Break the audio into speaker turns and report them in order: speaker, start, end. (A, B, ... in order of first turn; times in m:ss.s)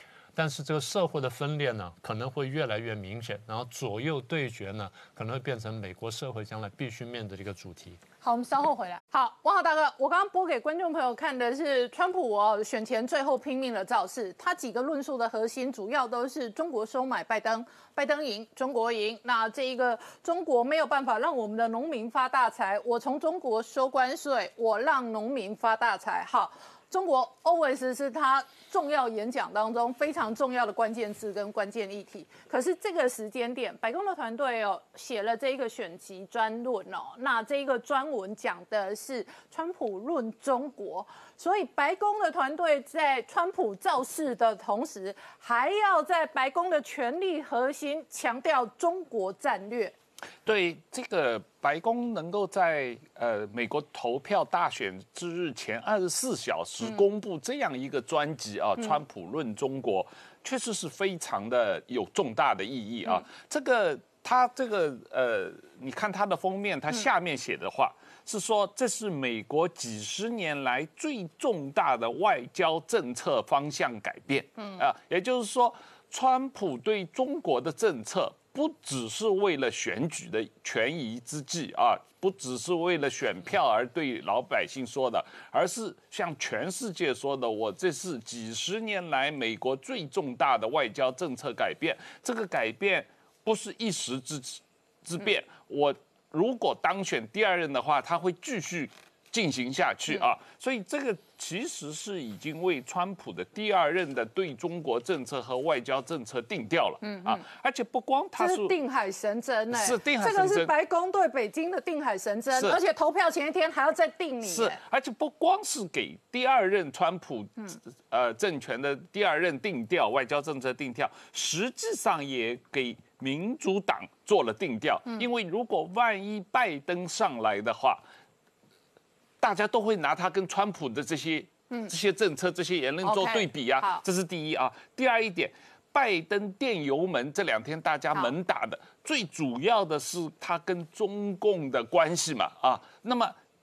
0:00.3-0:08.0 A
0:08.2-0:49.9 B
0:50.4-1:48.7 C
1:47.0-1:47.4 B
1:48.4-1:54.8 B
1:49.7-1:50.7 C
1:54.5-2:08.0 C
2:09.4-2:23.3 C
2:13.0-2:14.0 B